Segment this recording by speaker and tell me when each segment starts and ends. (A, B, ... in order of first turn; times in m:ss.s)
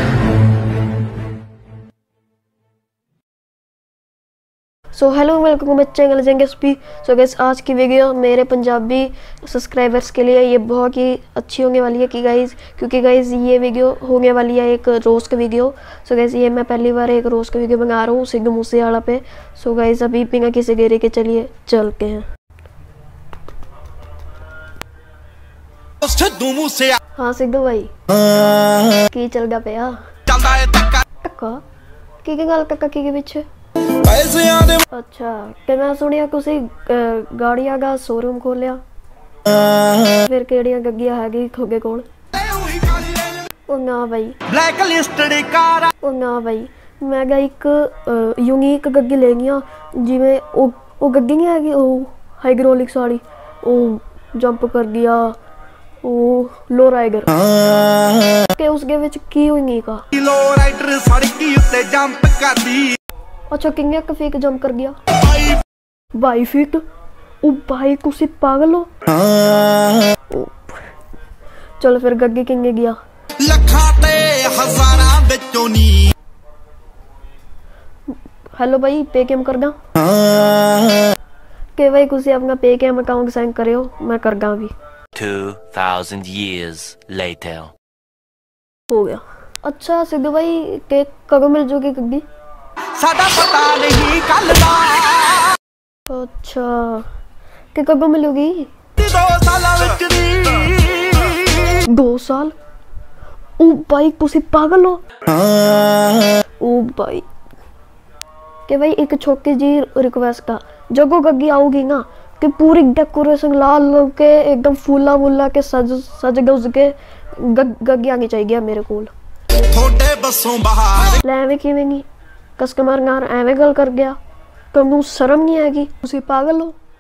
0:04.9-0:22.3 A
0:26.0-0:27.0 B
0:27.2-0:27.9 A
0:28.6-0:30.1 A
0:30.3-0:31.0 B
0:31.2-0:31.6 A
0:32.2-0:33.5 A
0:33.9-0:34.8 B
0:34.9-0:38.8 A
0:39.9-0:42.1 A
0:42.4-0:43.4 B
0:43.7-0:44.4 A
0:44.5-0:45.9 B
0:46.0-0:55.4 A
0:56.0-0:57.4 A
0:58.4-1:00.1 A
1:00.1-1:03.0 B
1:03.5-1:05.0 A
1:05.2-1:05.6 B
1:06.2-1:06.8 A
1:07.4-1:08.9 A
1:10.3-1:10.8 A
1:11.8-1:13.0 A
1:13.4-1:16.1 B
1:18.6-1:19.8 A
1:21.8-1:24.7 A
1:25.2-1:27.7 C
1:28.9-1:32.2 A
1:33.0-1:35.6 B
1:36.1-1:37.1 A
1:37.7-1:38.7 A
1:39.0-1:41.4 B
1:41.8-1:42.6 A
1:43.6-1:45.0 A
1:46.0-1:47.3 A
1:48.7-1:59.1 A
1:59.6-2:01.2 B
2:01.2-2:02.1 A
2:02.6-2:04.2 A
2:04.7-2:06.8 A